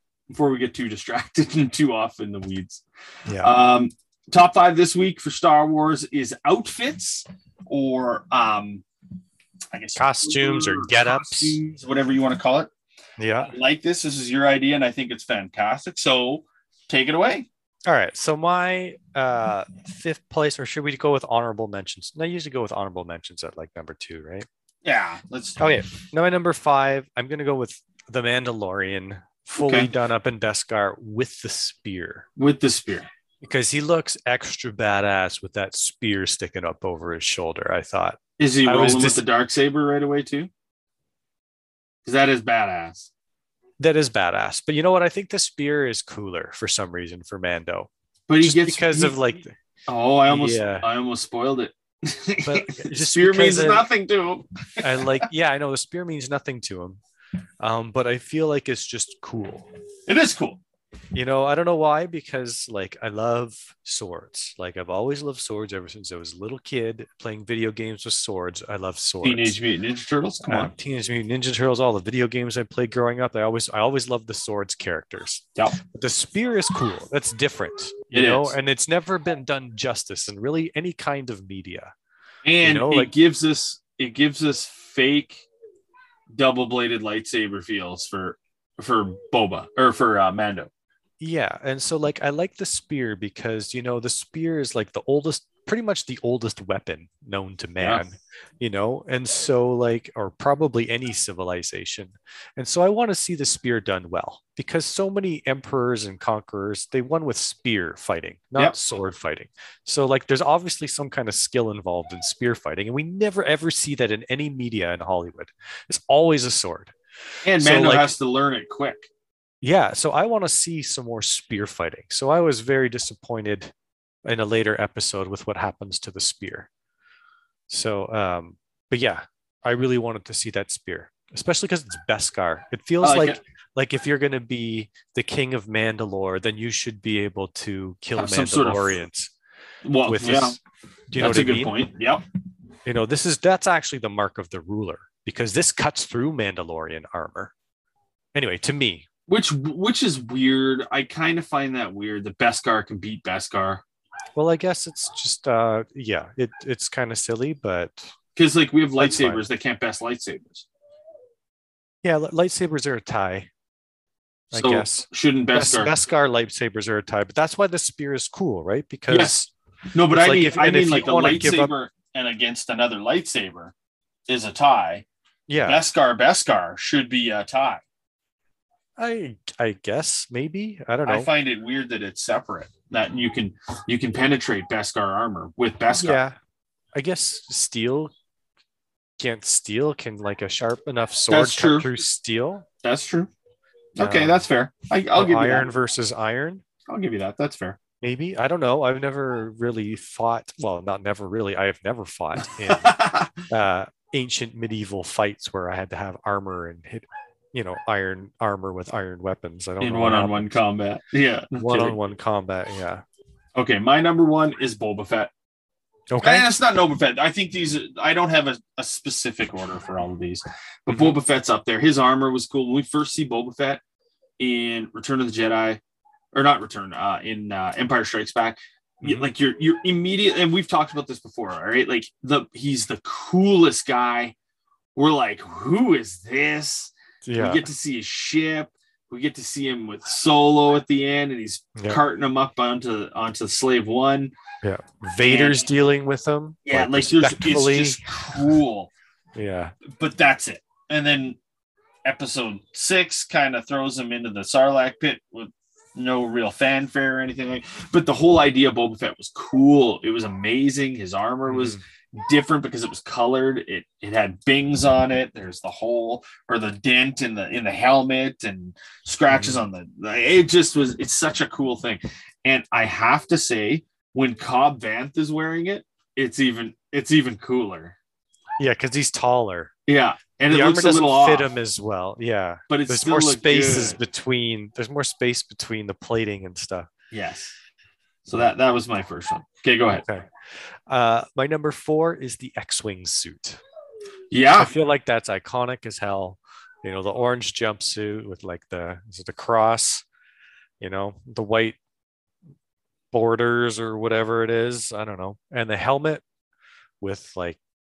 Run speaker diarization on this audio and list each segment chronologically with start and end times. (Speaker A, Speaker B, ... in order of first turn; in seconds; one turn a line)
Speaker A: 0.3-2.8
Speaker B: 3.3-3.5
Speaker A: 3.4-8.8
Speaker A: 9.7-12.7
Speaker B: 9.9-11.6
Speaker B: 13.2-13.5
Speaker A: 13.4-17.5
Speaker B: 17.9-24.4
Speaker A: 24.8-25.6
Speaker B: 25.6-32.2
Speaker A: 29.6-29.9
Speaker A: 32.4-33.1
Speaker B: 33.4-39.2
Speaker A: 38.4-40.5
Speaker A: 42.0-43.1
Speaker B: 43.8-47.9
Speaker A: 48.3-49.2
Speaker B: 48.4-49.5
Speaker A: 49.9-55.3
Speaker B: 50.3-50.9
Speaker B: 52.4-53.9
Speaker B: 54.8-57.0
Speaker B: 57.6-59.7
Speaker A: 60.1-60.6
Speaker B: 61.1-69.5
Speaker A: 69.2-70.7
Speaker B: 70.5-81.9
Speaker A: 78.1-78.5
Speaker A: 82.4-85.4
Speaker B: 82.6-83.1
Speaker A: 86.3-90.7
Speaker B: 91.2-116.9
Speaker A: 117.4-119.1
Speaker B: 117.5-118.1
Speaker B: 119.6-123.7
Speaker B: 124.2-126.7
Speaker B: 127.7-139.3
Speaker A: 133.0-133.4
Speaker A: 138.2-139.0
Speaker A: 139.8-140.6
Speaker B: 140.1-140.6
Speaker B: 141.1-141.7
Speaker A: 141.2-142.2
Speaker B: 142.8-147.5
Speaker B: 148.3-149.1
Speaker A: 149.3-153.8
Speaker B: 154.3-158.1
Speaker A: 158.3-160.7
Speaker B: 159.0-159.4
Speaker B: 162.0-163.5
Speaker A: 164.5-165.9
Speaker B: 164.5-169.5
Speaker A: 169.1-173.7
Speaker B: 170.1-171.7
Speaker A: 174.3-175.1
Speaker B: 175.5-175.8
Speaker A: 175.6-177.8
Speaker B: 179.0-181.3
Speaker A: 181.1-186.2
Speaker B: 186.0-186.3
Speaker B: 186.9-188.1
Speaker B: 189.2-192.7
Speaker A: 191.3-191.9
Speaker A: 192.8-193.3
Speaker A: 193.9-195.7
Speaker B: 194.0-194.4
Speaker B: 195.1-196.6
Speaker A: 196.9-197.8
Speaker B: 198.0-210.5
Speaker A: 202.6-203.5
Speaker A: 209.8-212.0
Speaker B: 211.5-213.0
Speaker A: 213.6-215.3
Speaker B: 216.1-216.5
Speaker A: 216.2-223.8
Speaker B: 220.9-221.2
Speaker A: 224.4-225.8
Speaker A: 226.3-234.3
Speaker B: 229.0-229.3
Speaker A: 234.9-244.3
Speaker B: 237.2-237.7
Speaker B: 241.8-242.0
Speaker B: 244.6-248.0
Speaker A: 245.2-245.7
Speaker A: 246.6-248.9
Speaker B: 249.3-249.7
Speaker A: 249.9-251.4
Speaker A: 252.0-278.0
Speaker B: 261.5-261.8
Speaker B: 269.3-269.6
Speaker B: 278.6-279.7
Speaker A: 279.9-281.5
Speaker B: 280.5-286.9
Speaker A: 282.7-284.0
Speaker A: 287.1-287.5
Speaker A: 288.2-290.1
Speaker B: 290.9-293.6
Speaker A: 294.3-294.7
Speaker B: 294.6-300.0
Speaker B: 300.8-301.8
Speaker B: 303.1-306.2
Speaker B: 307.0-307.6